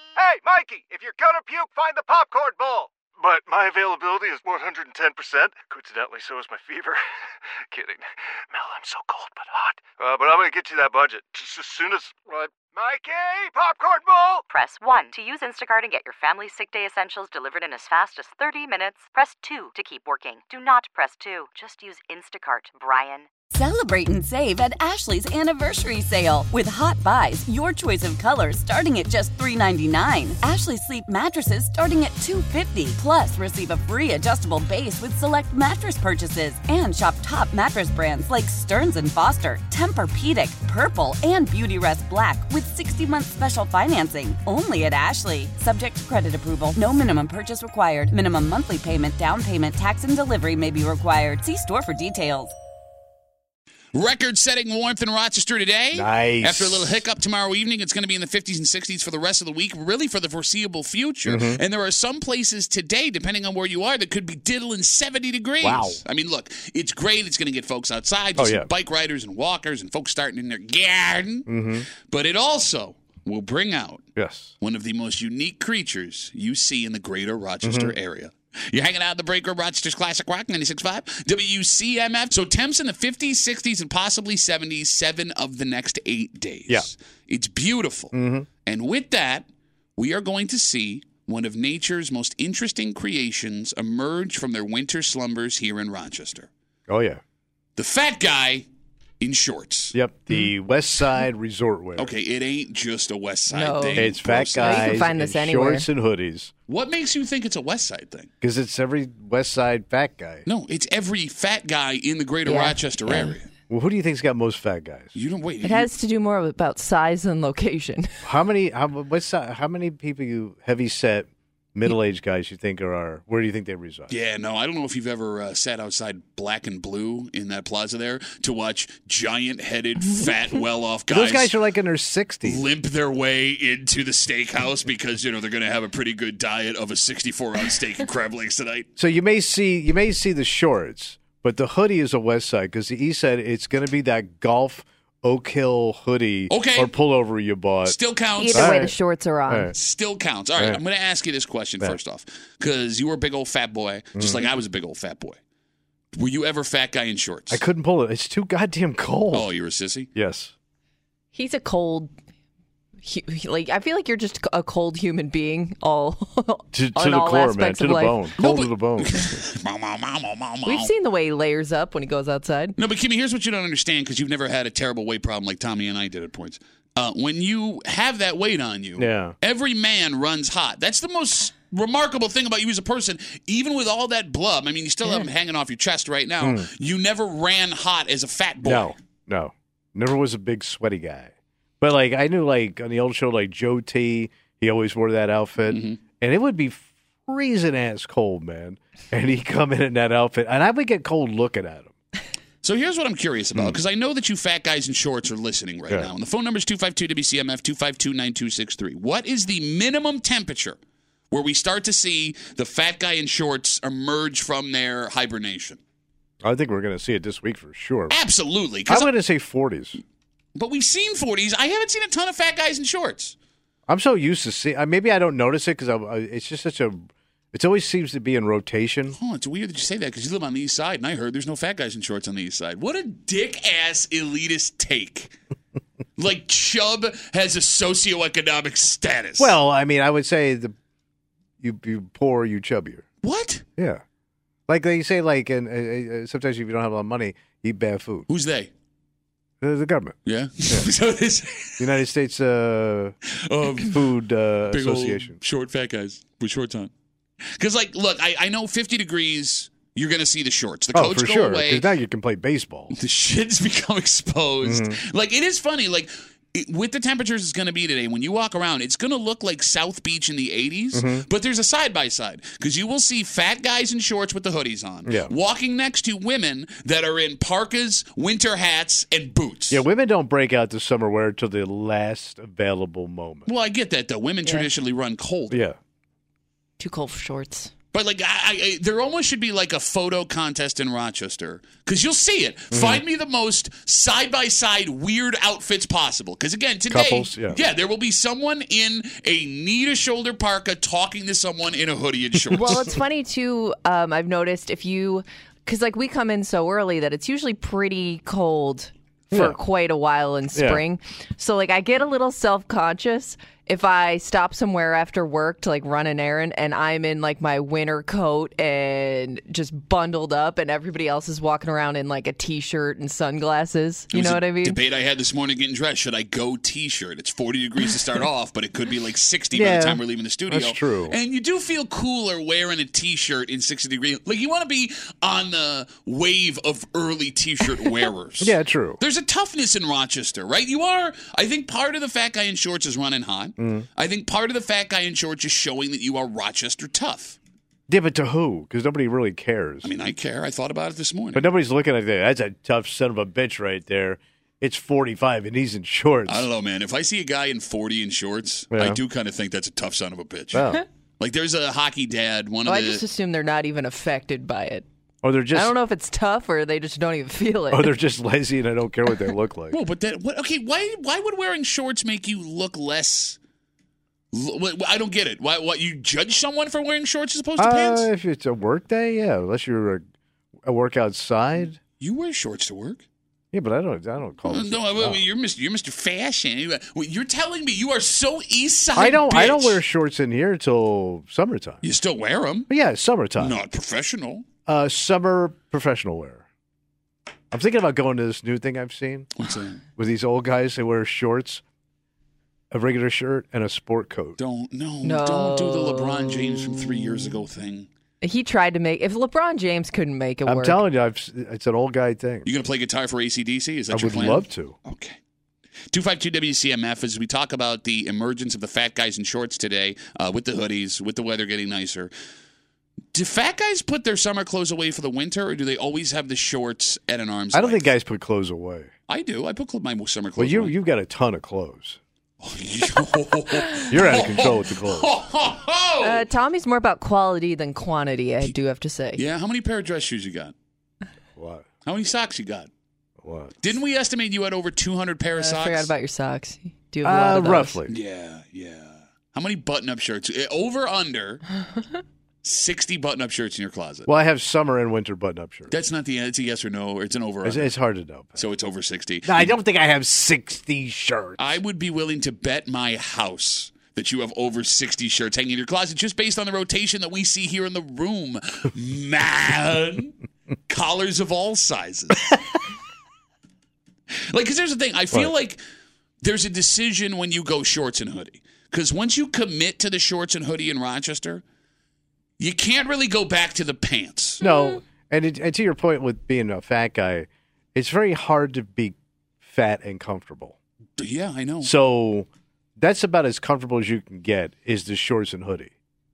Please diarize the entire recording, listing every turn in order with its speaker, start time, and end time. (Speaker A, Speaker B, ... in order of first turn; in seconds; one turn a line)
Speaker A: 0.2-7.0
Speaker A: 8.5-12.7
Speaker B: 14.5-23.3
Speaker C: 23.5-52.5
Speaker D: 53.9-74.0
Speaker E: 55.9-57.0
Speaker E: 61.2-61.6
Speaker E: 65.6-66.0
Speaker E: 68.3-68.7
Speaker E: 71.5-71.9
Speaker E: 74.2-74.5
Speaker D: 74.6-88.1
Speaker E: 77.6-77.9
Speaker E: 88.1-88.5
Speaker D: 88.6-96.5
Speaker E: 96.9-97.2
Speaker D: 97.8-98.7
Speaker D: 99.2-99.9
Speaker E: 99.9-102.1
Speaker D: 102.0-105.1
Speaker F: 103.5-105.9
Speaker E: 104.0-106.5
Speaker D: 106.7-108.3
Speaker E: 108.4-110.4
Speaker D: 110.5-113.5
Speaker F: 112.5-113.3
Speaker E: 113.7-115.1
Speaker D: 115.1-115.9
Speaker F: 115.6-118.1
Speaker E: 118.2-124.1
Speaker D: 124.1-131.5
Speaker E: 131.1-132.6
Speaker D: 132.4-138.9
Speaker E: 139.0-147.9
Speaker D: 146.5-146.9
Speaker D: 147.8-148.8
Speaker F: 148.4-149.7
Speaker E: 148.5-148.9
Speaker E: 149.5-149.7
Speaker D: 149.7-155.4
Speaker E: 150.6-150.8
Speaker E: 154.2-154.5
Speaker D: 156.1-157.6
Speaker E: 157.5-159.5
Speaker D: 159.3-160.1
Speaker E: 160.1-160.5
Speaker F: 161.3-162.1
Speaker F: 163.0-168.2
Speaker E: 166.7-169.2
Speaker D: 168.4-170.9
Speaker F: 170.6-172.8
Speaker D: 172.8-188.9
Speaker E: 179.0-179.3
Speaker E: 186.4-186.7
Speaker E: 188.6-201.9
Speaker D: 195.7-196.0
Speaker D: 202.6-210.8
Speaker D: 211.3-215.8
Speaker E: 216.4-218.2
Speaker D: 218.1-219.1
Speaker E: 218.9-220.0
Speaker D: 220.5-223.3
Speaker E: 223.9-229.2
Speaker D: 229.1-235.3
Speaker D: 236.2-239.6
Speaker E: 239.4-240.7
Speaker E: 241.6-243.0
Speaker D: 243.2-243.6
Speaker E: 243.8-244.0
Speaker E: 244.7-248.3
Speaker D: 248.3-248.7
Speaker E: 249.6-250.2
Speaker D: 250.2-252.0
Speaker E: 251.8-253.1
Speaker D: 253.4-254.1
Speaker E: 253.8-255.4
Speaker D: 254.7-256.9
Speaker D: 257.6-261.9
Speaker E: 260.9-262.9
Speaker D: 262.9-279.8
Speaker E: 264.6-265.0
Speaker E: 270.9-271.2
Speaker E: 275.0-275.3
Speaker E: 279.7-283.4
Speaker D: 283.4-285.6
Speaker E: 285.5-285.8
Speaker F: 286.8-287.7
Speaker D: 287.9-302.8
Speaker E: 292.7-293.0
Speaker E: 296.9-297.6
Speaker F: 302.5-324.8
Speaker E: 309.3-309.6
Speaker E: 310.5-310.8
Speaker D: 324.1-347.4
Speaker E: 329.5-331.1
Speaker E: 338.4-339.0
Speaker E: 343.6-343.9
Speaker E: 347.9-349.9
Speaker D: 349.8-351.5
Speaker E: 351.3-356.5
Speaker D: 356.3-360.7
Speaker E: 358.7-359.0
Speaker E: 360.5-360.8
Speaker D: 361.2-363.0
Speaker F: 362.6-364.8
Speaker E: 365.2-365.7
Speaker F: 365.5-367.9
Speaker E: 367.7-369.8
Speaker D: 369.7-373.4
Speaker D: 374.3-378.1
Speaker E: 377.6-380.0
Speaker E: 380.6-381.8
Speaker D: 382.0-383.0
Speaker E: 383.5-385.2
Speaker D: 384.4-389.8
Speaker E: 388.9-391.8
Speaker D: 391.8-392.7
Speaker E: 392.7-393.6
Speaker D: 393.4-394.4
Speaker E: 394.7-396.4
Speaker E: 397.5-399.3
Speaker D: 399.4-399.8
Speaker E: 399.9-401.6
Speaker E: 402.7-404.4
Speaker D: 404.4-407.9
Speaker F: 405.0-406.5
Speaker F: 408.2-410.8
Speaker E: 410.4-412.5
Speaker D: 412.4-415.2
Speaker E: 413.9-414.7
Speaker D: 415.9-422.1
Speaker D: 423.1-427.9
Speaker E: 427.5-428.9
Speaker D: 429.1-430.7
Speaker E: 430.4-432.0
Speaker D: 432.4-436.2
Speaker E: 433.9-435.1
Speaker F: 436.0-439.2
Speaker D: 439.1-440.5
Speaker E: 441.4-441.6
Speaker D: 441.8-442.7
Speaker E: 443.2-443.6
Speaker D: 443.6-445.9
Speaker F: 445.4-447.8
Speaker E: 447.0-448.0
Speaker D: 447.9-451.4
Speaker D: 452.4-454.1
Speaker E: 454.1-455.7
Speaker D: 455.7-457.8
Speaker E: 457.4-458.5
Speaker D: 458.4-459.6
Speaker E: 459.2-461.5
Speaker D: 461.4-470.1
Speaker D: 470.7-472.4
Speaker D: 474.3-475.6
Speaker D: 476.2-481.4
Speaker D: 482.4-484.4
Speaker E: 484.4-490.6
Speaker D: 491.0-491.7
Speaker E: 491.6-492.3
Speaker E: 492.8-495.7